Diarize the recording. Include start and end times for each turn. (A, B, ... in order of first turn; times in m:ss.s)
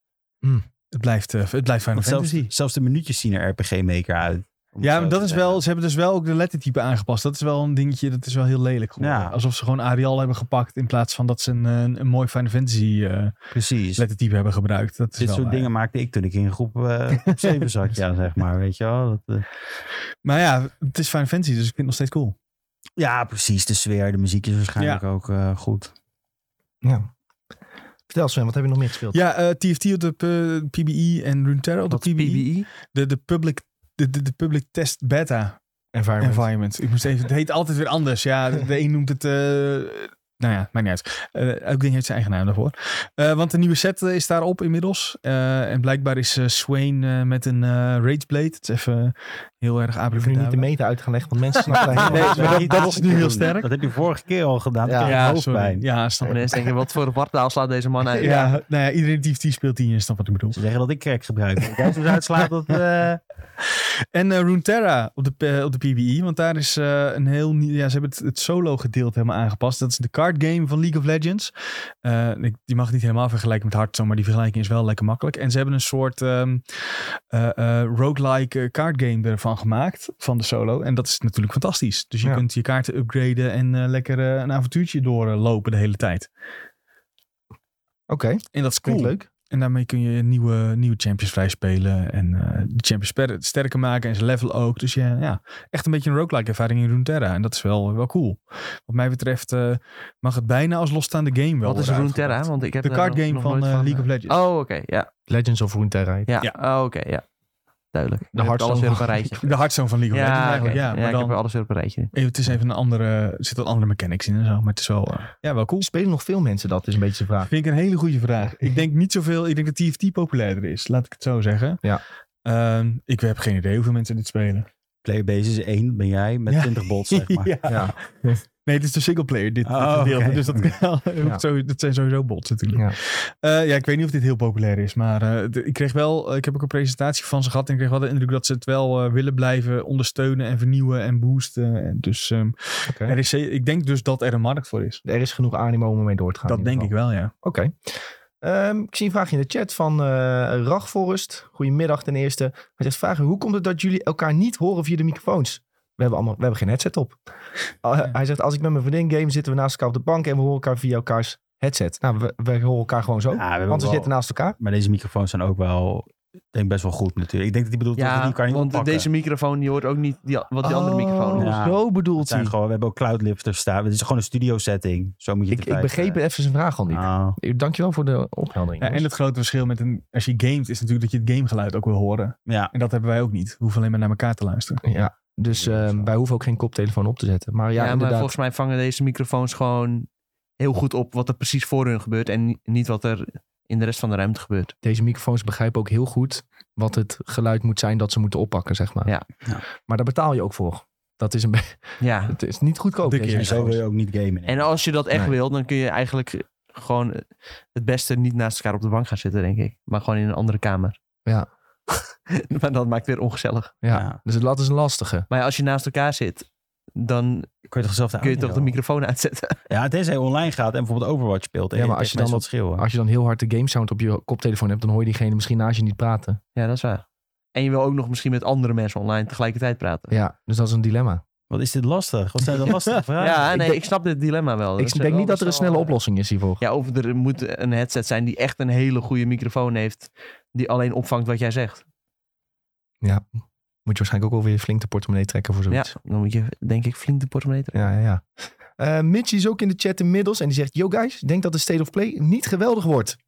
0:00.9-0:02.5 A
0:01.9-0:05.6 B
0:04.8-0:13.4 A
0:09.0-0:09.4 B
0:13.5-0:14.0 B
0:14.0-0:15.7 A
0:15.2-0:19.4 B
0:20.2-0:22.3 A
0:23.0-0:25.9 B
0:24.8-0:25.0 A
0:26.8-0:27.1 C
0:28.1-0:29.2 C
0:29.1-0:35.6 A
0:31.9-0:32.7 D
0:35.9-0:36.5 C
0:36.2-0:50.7 A
0:50.1-0:52.7 C
0:51.7-0:53.7 A
0:51.9-0:55.9 B
0:52.1-0:53.0 D
0:54.8-0:55.2 C
0:55.0-0:56.7 A
0:56.2-0:58.5 D
0:58.2-1:00.6 A
1:00.5-1:03.2 B
1:04.1-1:26.3 A
1:28.1-1:29.2 C
1:28.5-1:44.4 A
1:41.6-1:45.1 D
1:45.3-1:46.3 C
1:46.3-1:47.2 D
1:47.9-1:49.6 D
1:48.3-1:49.2 C
1:49.4-1:51.4 A
1:50.1-1:52.1 D
1:52.1-1:55.9 A
1:55.8-1:57.5 C
1:57.4-2:01.8 A
2:02.4-2:04.7 A
2:05.0-2:07.5 B
2:06.5-2:25.0 A
2:07.7-2:08.4 C
2:09.6-2:10.8 B
2:22.9-2:23.2 C
2:25.0-2:37.2 C
2:26.4-2:27.3 A
2:37.8-2:44.6 C
2:43.3-2:49.1 B
2:48.0-2:51.6 D
2:50.6-2:52.5 C
2:51.4-2:56.2 B
2:55.5-2:59.1 C
2:56.9-2:57.4 B
2:58.8-3:04.8 A
3:02.4-3:02.7 B
3:04.8-3:08.3 C
3:05.5-3:06.1 B
3:07.8-3:10.1 D
3:10.6-3:14.7 D
3:14.8-3:19.1 C
3:19.9-3:23.8 C
3:22.0-3:22.4 D
3:23.0-3:23.6 A
3:23.3-3:24.8 B
3:24.4-3:31.0 D
3:31.9-3:33.7 D
3:33.8-3:35.3 C
3:33.9-3:34.2 B
3:35.3-3:37.5 D
3:37.7-3:38.8 B
3:38.2-3:39.6 D
3:39.7-3:42.8 B
3:41.7-3:46.4 C
3:46.5-3:50.1 D
3:50.1-3:51.2 C
3:51.5-3:53.5 B
3:53.2-3:56.0 D
3:53.5-3:53.8 C
3:54.8-3:56.6 C
3:56.6-4:01.8 D
4:03.8-4:05.9 C
4:05.7-4:07.8 D
4:07.7-4:13.2 C